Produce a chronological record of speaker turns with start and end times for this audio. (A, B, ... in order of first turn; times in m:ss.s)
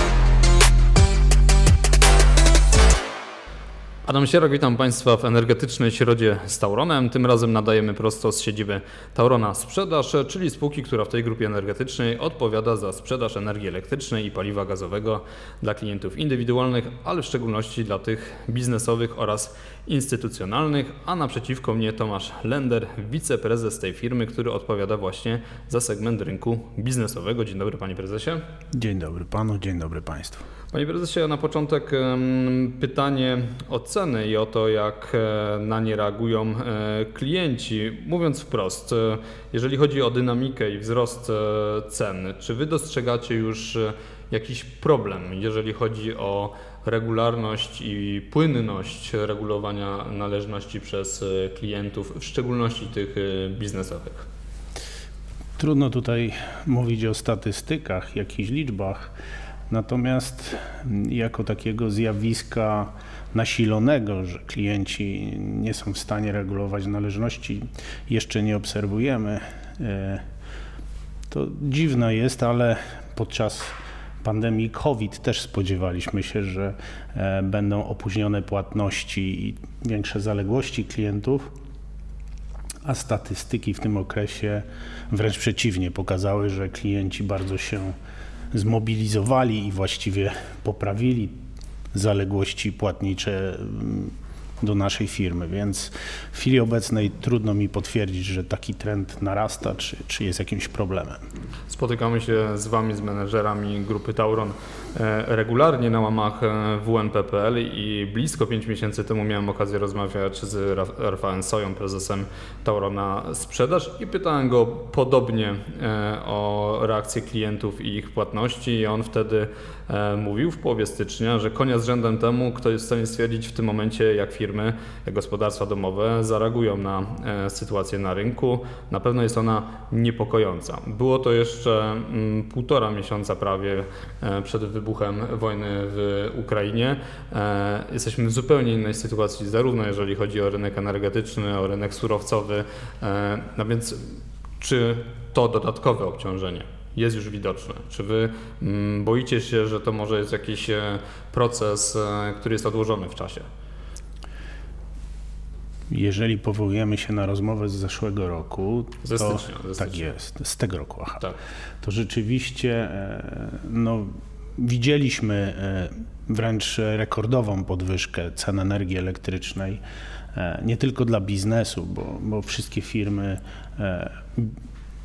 0:04.1-0:28.4 A
0:28.7-0:30.4 B
0:30.7-0:54.3 A
0:55.6-0:59.1 B
0:59.7-1:10.2 B
1:11.3-1:21.5 B
1:22.8-1:27.9 B
1:28.5-1:31.4 B
1:31.9-1:41.2 B
1:41.7-2:24.1 A
2:24.6-2:33.5 A
2:35.9-2:41.2 B
2:39.0-2:40.1 A
2:41.8-2:49.8 B
2:50.3-2:54.6 B